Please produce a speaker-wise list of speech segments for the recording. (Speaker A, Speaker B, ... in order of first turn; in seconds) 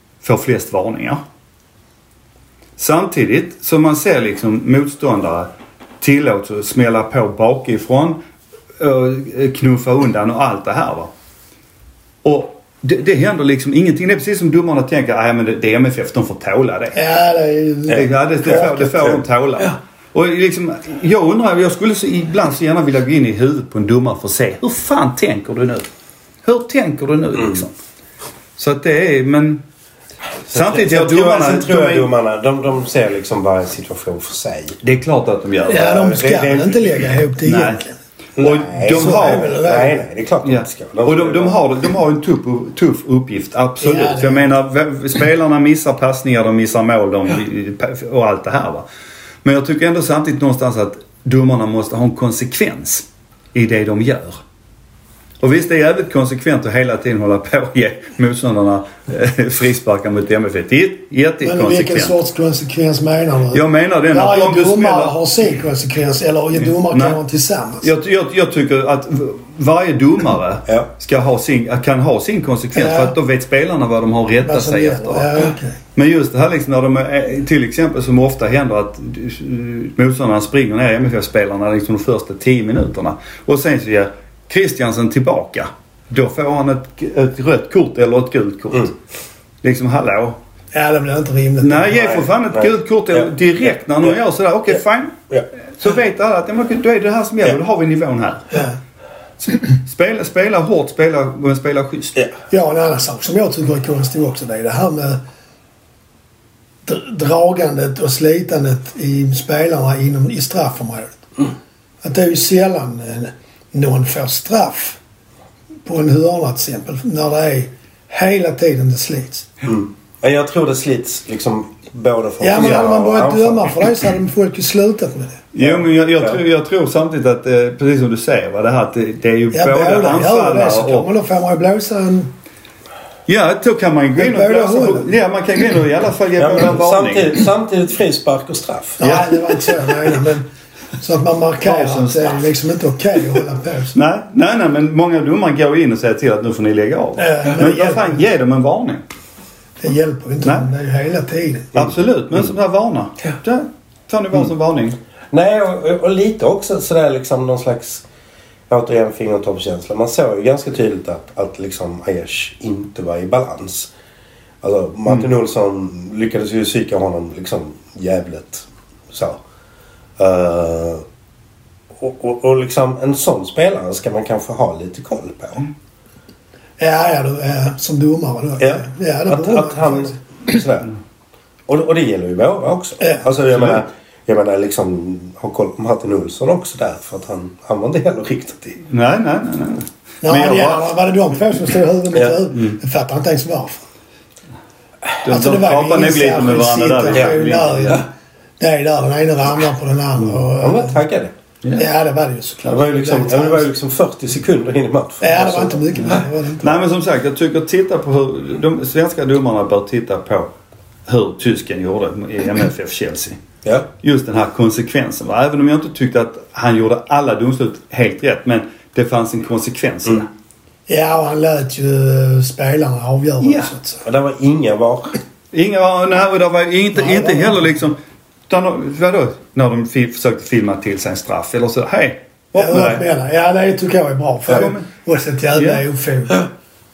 Speaker A: 0.2-1.2, 2.8-5.5, 6.0-8.2, 8.8-11.1, 12.2-17.0, 17.9-25.9, 26.4-27.7, 28.6-29.6, 30.5-32.1, 34.8-36.1, 37.5-37.8, 38.4-39.6, 40.4-48.9, 49.4-54.4, 55.4-62.1, 63.5-65.2, 66.6-67.2, 67.8-75.3, 76.0-89.0, 89.6-90.4, 91.6-98.7, 99.4-102.2, 125.5-131.1, 133.3-137.4, 139.0-139.7, 141.6-142.3, 143.9-149.0, 151.7-155.0, 188.8-190.9, 195.2-198.0, 206.6-210.5, 211.1-213.4, 214.0-220.3, 223.4-223.7, 225.5-228.0, 228.5-233.1, 234.5-234.9, 235.6-235.8
Speaker B: 16.9-18.9, 35.7-38.0, 38.9-40.0, 43.8-44.5, 61.4-67.9, 72.8-73.1, 74.4-75.8, 90.7-91.9, 102.5-105.2, 106.9-111.2, 112.0-115.0, 115.9-119.5, 122.4-125.4, 129.5-132.3, 134.2-135.1, 139.0-143.9, 147.2-148.2, 149.8-151.7, 176.8-180.2, 183.0-183.3, 190.2-193.9, 195.3-198.1, 198.6-201.0, 201.8-203.7, 205.2-206.8, 220.9-224.0, 227.0-227.7, 232.6-236.5
Speaker C: 30.5-34.8, 35.8-37.0, 38.4-41.6, 91.9-93.3, 119.7-123.9, 125.6-126.4, 136.4-139.0, 155.3-158.1, 158.7-163.9, 164.6-169.4, 170.2-171.1, 172.0-175.7, 178.6-180.9, 181.7-188.8, 200.6-201.3, 202.7-206.2, 213.6-213.9, 224.0-225.2